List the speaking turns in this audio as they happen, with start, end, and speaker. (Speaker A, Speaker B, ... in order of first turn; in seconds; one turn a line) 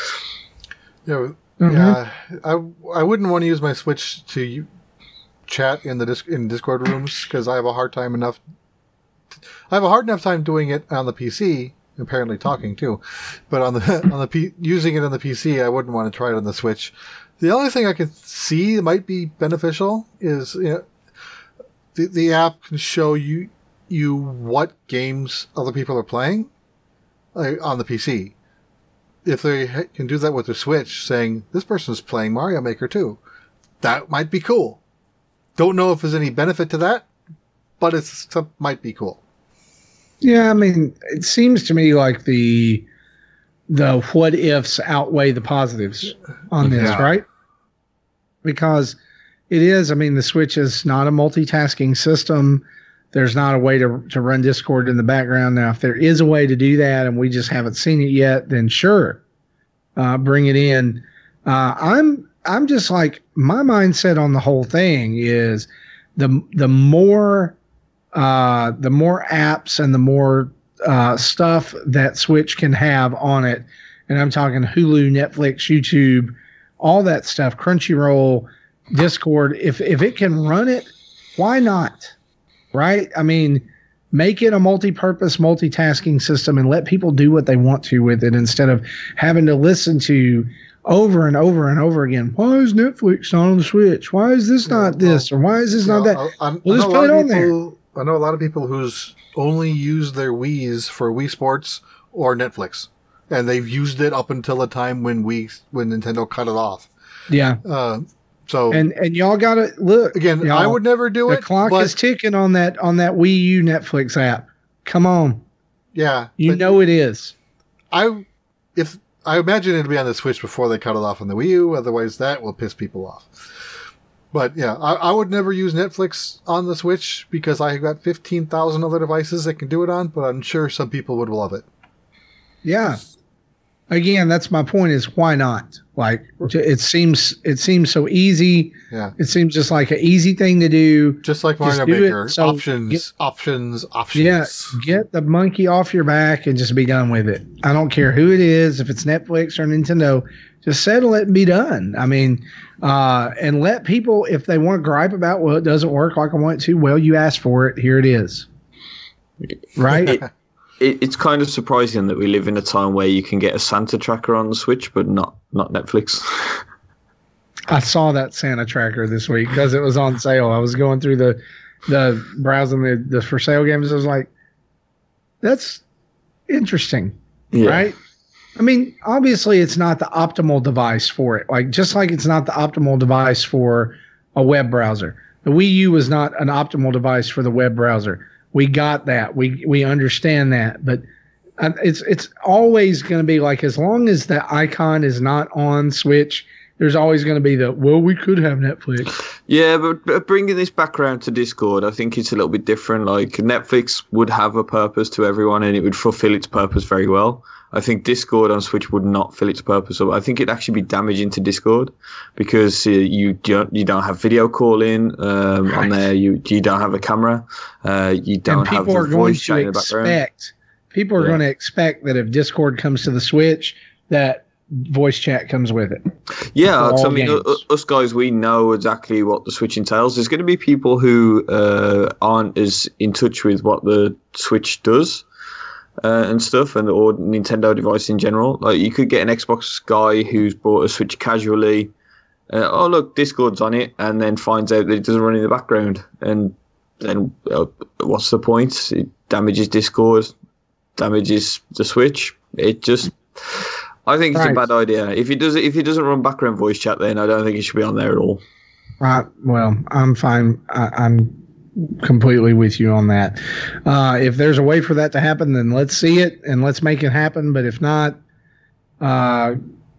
Speaker A: 1.1-4.7
Speaker B: 1.6-2.0
Speaker A: 5.5-8.4
Speaker A: 9.7-20.9
Speaker A: 21.9-26.5
Speaker A: 27.4-28.3
Speaker A: 29.2-33.2
Speaker A: 33.8-34.8
Speaker A: 35.6-37.1
Speaker A: 37.8-39.2
Speaker B: 40.2-42.9
Speaker B: 43.7-47.2
Speaker A: 46.6-47.1
Speaker B: 48.4-49.0
Speaker B: 49.5-59.2
Speaker B: 60.0-67.5
Speaker B: 68.1-82.1
Speaker B: 82.7-97.5
Speaker A: 94.7-95.3
Speaker A: 95.8-106.9
Speaker B: 107.3-107.6
Speaker A: 107.6-108.8
Speaker B: 108.7-115.4
Speaker A: 110.1-111.9
Speaker A: 115.9-116.8
Speaker B: 116.4-117.3
Speaker A: 117.9-123.7
Speaker A: 124.3-131.7
Speaker B: 132.6-133.0
Speaker B: 133.9-143.0
Speaker A: 141.2-144.8
Speaker B: 144.1-158.5
Speaker B: 159.8-160.2
Speaker C: 159.9-160.2
Speaker C: 160.8-166.6
Speaker B: 167.7-174.3
Speaker B: 175.4-175.8
Speaker B: 176.5-178.0
Speaker C: 177.5-177.9
Speaker B: 178.6-191.0
Speaker B: 191.6-199.2
Speaker C: 199.5-220.2
Speaker B: 215.7-215.9
Speaker B: 218.5-226.0
Speaker C: 226.5-235.2
Speaker B: 226.8-227.6
Speaker C: 236.0-241.9
Speaker C: 242.5-250.3
Speaker C: 251.0-258.4
Speaker B: 254.3-254.6
Speaker B: 259.0-268.2
Speaker B: 269.0-269.6